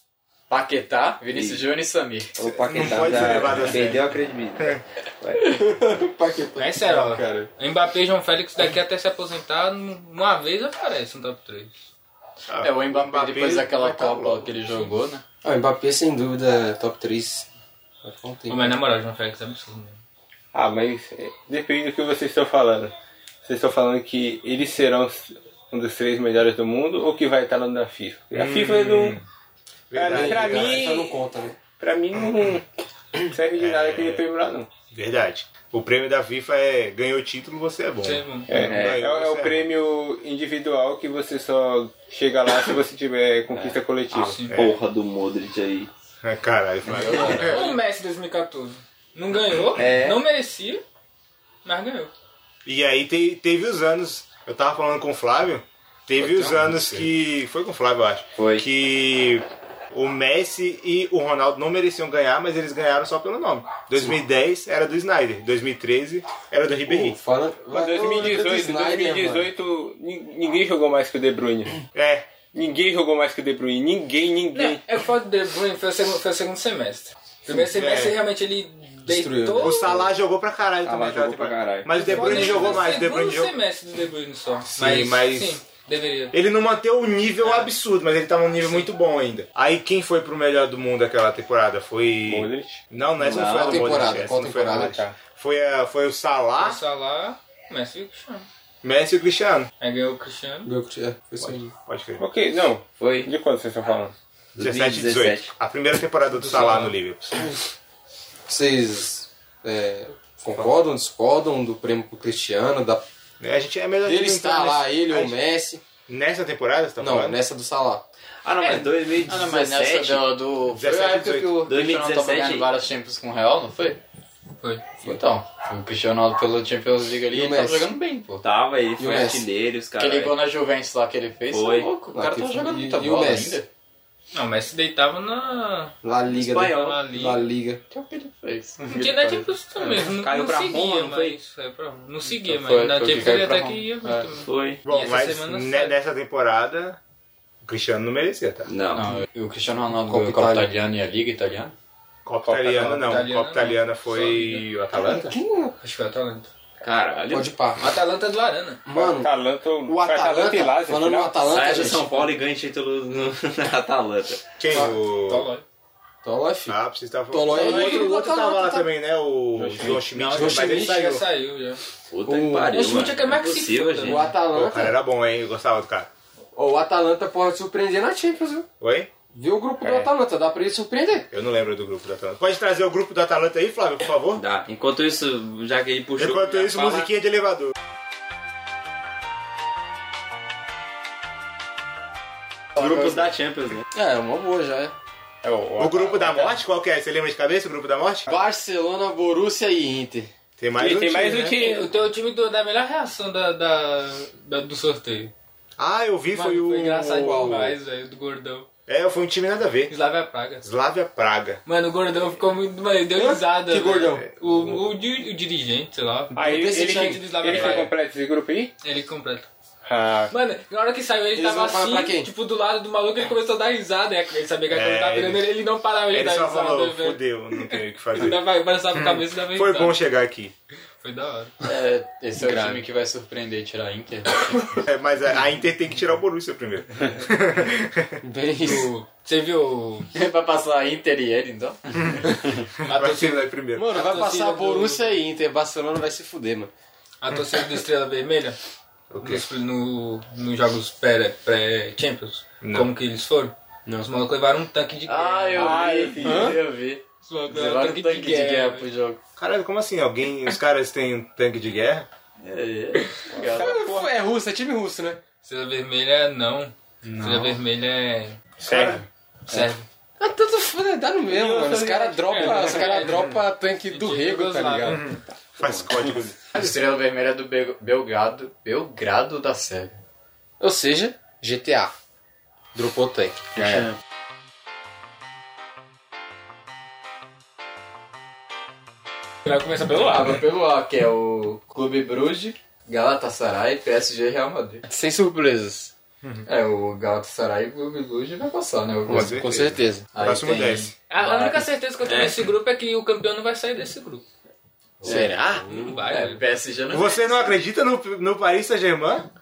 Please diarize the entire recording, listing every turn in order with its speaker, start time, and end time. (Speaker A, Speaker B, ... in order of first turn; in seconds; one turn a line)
Speaker A: 0.5-2.4
Speaker B: 1.3-1.6
Speaker B: 2.4-5.6
Speaker C: 2.5-4.8
Speaker D: 5.5-7.5
Speaker E: 6.6-11.8
Speaker C: 12.5-14.5
Speaker A: 12.6-15.2
Speaker D: 15.4-17.5
Speaker D: 18.0-18.8
Speaker E: 18.5-20.0
Speaker F: 20.5-22.9
Speaker F: 23.4-29.2
Speaker C: 28.4-29.2
Speaker C: 29.9-30.9
Speaker F: 29.9-32.7
Speaker D: 30.0-31.6
Speaker F: 33.2-34.7
Speaker C: 33.6-34.2
Speaker C: 34.9-39.7
Speaker E: 38.0-38.5
Speaker F: 38.5-44.4
Speaker B: 38.6-39.0
Speaker B: 43.5-43.8
Speaker E: 44.1-44.5
Speaker C: 44.5-44.8
Speaker B: 44.5-45.9
Speaker C: 46.2-47.7
Speaker A: 47.0-47.6
Speaker B: 47.1-47.4
Speaker E: 47.4-50.8
Speaker B: 49.8-50.2
Speaker E: 51.6-52.1
Speaker C: 52.6-67.2
Speaker D: 56.2-57.0
Speaker B: 58.4-58.7
Speaker D: 66.8-69.5
Speaker F: 67.7-71.8
Speaker C: 71.9-72.3
Speaker F: 72.5-74.8
Speaker E: 74.5-80.0
Speaker C: 77.6-78.2
Speaker D: 79.0-80.1
Speaker C: 79.6-83.5
Speaker B: 80.8-82.9
Speaker E: 81.9-86.4
Speaker C: 84.8-85.6
Speaker C: 86.3-96.8
Speaker E: 87.4-87.7
Speaker E: 88.6-88.9
Speaker F: 92.3-92.8
Speaker B: 93.2-94.0
Speaker D: 93.4-95.0
Speaker E: 96.6-98.5
Speaker C: 98.8-99.7
Speaker E: 99.8-100.7
Speaker D: 100.7-101.7
Speaker C: 101.4-102.2
Speaker F: 102.2-104.1
Speaker B: 103.0-103.3
Speaker B: 104.6-105.5
Speaker C: 104.6-107.5
Speaker E: 106.3-107.0
Speaker D: 108.5-113.0
Speaker C: 113.4-115.3
Speaker D: 114.0-115.8
Speaker C: 116.1-117.4
Speaker D: 117.0-118.0
Speaker B: 118.4-120.3
Speaker A: 119.3-124.0
Speaker C: 120.7-121.6
Speaker B: 121.6-122.7
Speaker E: 124.6-124.9
Speaker A: 125.0-128.4
Speaker D: 127.3-127.9
Speaker B: 128.4-130.4
Speaker D: 129.0-129.5
Speaker A: 130.0-133.7
Speaker B: 131.5-132.6
Speaker D: 132.3-133.6
Speaker E: 134.3-135.9
Speaker D: 136.0-137.8
Speaker B: 136.3-137.1
Speaker E: 136.7-137.4
Speaker A: 137.9-139.5
Speaker E: 138.9-146.0
Speaker B: 140.0-141.4
Speaker A: 142.3-144.3
Speaker B: 144.4-144.8
Speaker C: 144.8-147.0
Speaker C: 147.6-148.7
Speaker B: 148.7-149.2
Speaker A: 148.9-151.7
Speaker D: 150.1-150.7
Speaker C: 152.2-155.4
Speaker F: 152.5-153.0
Speaker E: 152.9-154.7
Speaker D: 154.9-155.8
Speaker E: 155.8-156.5
Speaker B: 156.8-157.5
Speaker D: 157.3-157.9
Speaker E: 157.8-158.8
Speaker D: 158.9-159.3
Speaker F: 158.9-161.5
Speaker D: 159.8-162.3
Speaker B: 161.5-164.5
Speaker C: 164.6-165.5
Speaker E: 165.2-165.6
Speaker D: 166.2-166.8
Speaker C: 166.7-171.2
Speaker D: 167.3-168.9
Speaker E: 167.5-168.2
Speaker F: 169.6-170.1
Speaker E: 170.2-171.8
Speaker D: 170.2-171.1
Speaker B: 172.1-174.3
Speaker D: 172.3-172.8
Speaker E: 172.7-174.3
Speaker D: 174.0-175.0
Speaker C: 174.5-176.1
Speaker D: 176.6-178.7
Speaker C: 178.8-179.1
Speaker D: 179.3-181.3
Speaker C: 181.3-184.4
Speaker B: 184.3-187.1
Speaker C: 186.2-187.7
Speaker B: 192.8-193.9
Speaker D: 193.9-194.9
Speaker F: 195.4-196.5
Speaker C: 195.8-198.3
Speaker D: 198.3-200.3
Speaker C: 200.6-201.6
Speaker F: 200.8-201.9
Speaker E: 201.6-205.3
Speaker C: 205.8-207.6
Speaker E: 206.3-208.7
Speaker D: 207.2-207.8
Speaker C: 208.9-209.9
Speaker E: 209.9-210.7
Speaker C: 210.6-211.6
Speaker E: 211.7-217.9
Speaker D: 213.1-214.3
Speaker F: 216.3-218.7
Speaker D: 216.4-217.8
Speaker E: 218.8-219.5
Speaker F: 219.9-220.3
Speaker E: 220.3-230.0
Speaker D: 221.3-222.3
Speaker C: 224.7-225.5
Speaker C: 226.1-230.5
Speaker E: 231.0-231.5
Speaker A: 231.7-234.7
Speaker D: 232.4-232.8
Speaker C: 234.8-238.2
Speaker D: 238.2-238.9
Speaker E: 238.6-240.1
Speaker A: 240.1-242.2
Speaker C: 242.8-243.9
Speaker E: 242.9-245.2
Speaker D: 243.8-246.7
Speaker E: 247.2-248.6
Speaker C: 249.1-249.4
Speaker E: 249.2-255.9
Speaker C: 252.6-252.9
Speaker A: 255.1-259.2
Speaker F: 255.5-256.5
Speaker D: 256.2-256.6
Speaker E: 257.2-258.9
Speaker C: 259.4-262.1
Speaker A: 262.5-263.8
Speaker D: 263.4-265.2
Speaker F: 263.5-264.2
Speaker E: 265.4-268.5
Speaker A: 267.0-267.6
Speaker C: 268.7-269.0
Speaker F: 268.7-269.0
Speaker E: 269.5-269.9
Speaker D: 270.2-275.1
Speaker F: 271.3-273.1
Speaker E: 272.3-275.0
Speaker C: 274.9-276.7
Speaker A: 276.5-280.0
Speaker D: 280.6-281.9
Speaker D: 282.7-283.9
Speaker E: 289.5-290.4
Speaker A: 290.0-294.8
Speaker D: 294.9-295.9
Speaker C: 296.2-296.5
Speaker A: 296.5-299.5
Speaker D: 299.1-300.1
Speaker C: 299.1-300.9
Speaker A: 300.1-301.6
Speaker E: 301.1-304.2
Speaker B: 302.0-302.5
Speaker D: 305.0-305.9
Speaker A: 305.0-305.4
Speaker E: 305.6-306.4
Speaker A: 305.9-307.4
Speaker C: 306.9-309.3